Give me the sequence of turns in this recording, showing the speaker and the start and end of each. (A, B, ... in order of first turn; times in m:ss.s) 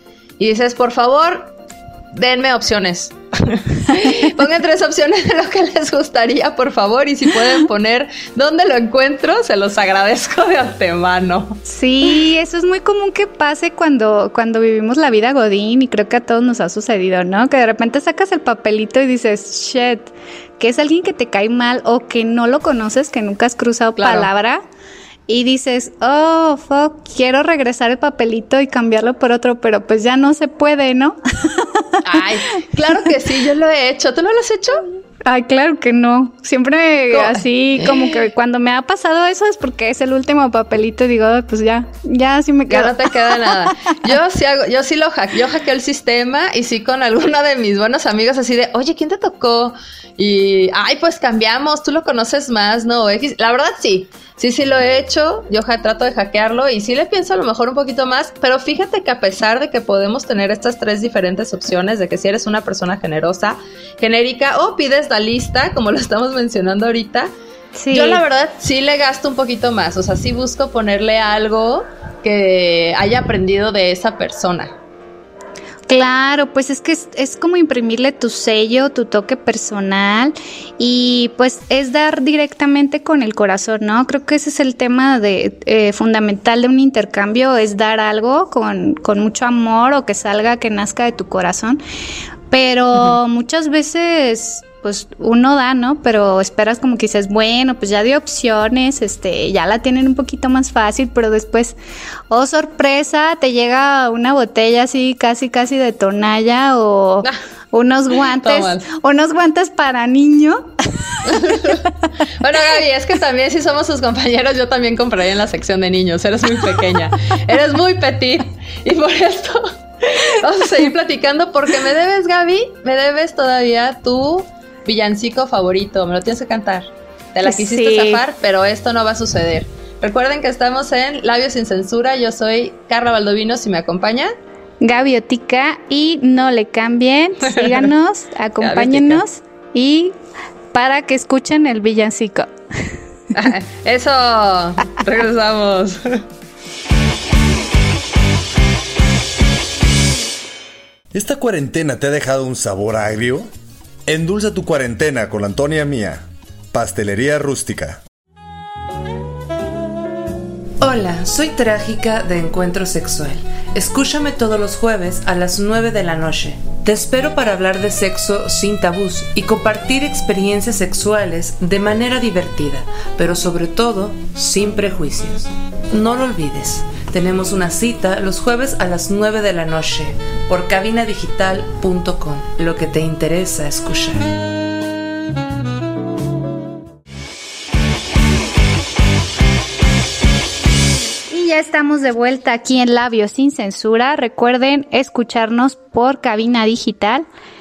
0:00.4-0:01.5 A
0:02.1-0:11.6 A
0:11.6-0:24.6 B
0:24.0-0:24.3 A
0:25.3-0:32.2 B
0:32.0-0:34.8 A
0:35.2-0:44.1 B
0:37.1-0:38.3 A
0:42.7-1:07.3 A
1:07.8-1:08.2 B
1:07.9-1:14.8 A
1:15.9-1:31.8 B
1:32.5-1:41.8 B
1:42.3-1:51.8 B
1:48.2-1:48.8 A
1:51.2-1:51.9 A
1:52.4-2:14.3 A
2:07.4-2:08.2 B
2:14.8-2:20.2 B
2:17.4-2:17.8 A
2:18.6-2:19.2 A
2:20.7-2:22.9 B
2:23.3-2:26.2 A
2:31.1-2:33.5 C
2:34.1-2:38.0 C
2:40.8-3:04.3 D
3:11.3-3:17.2 B